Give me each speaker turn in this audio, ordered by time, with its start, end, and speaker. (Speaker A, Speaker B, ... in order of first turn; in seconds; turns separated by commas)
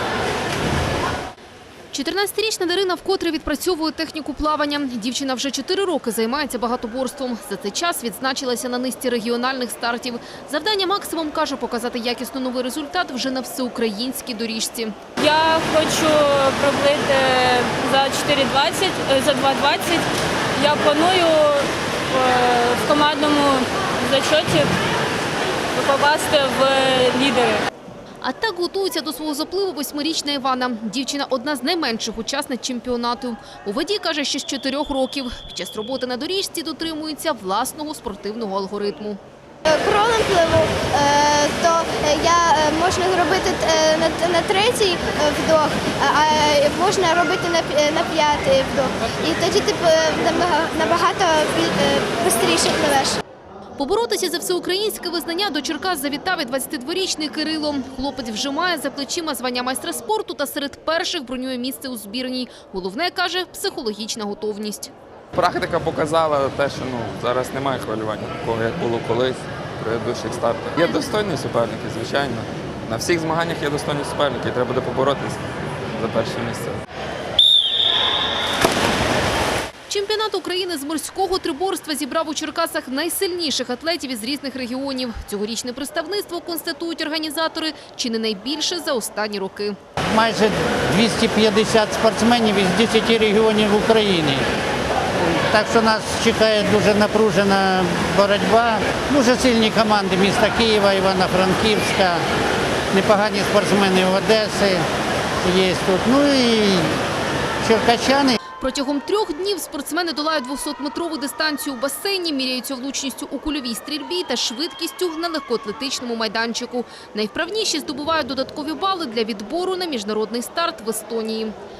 Speaker A: 1.9-14.9, Speaker B: 15.2-20.1, Speaker B: 20.6-24.7, Speaker B: 25.7-27.6, Speaker A: 28.2-39.2, Speaker C: 39.7-53.2, Speaker A: 53.8-64.9, Speaker D: 65.3-76.8, Speaker A: 79.9-89.8, Speaker E: 90.1-94.4, Speaker E: 95.2-102.2, Speaker E: 102.9-104.8, Speaker E: 105.4-107.0, Speaker E: 107.6-108.4, Speaker A: 108.6-121.5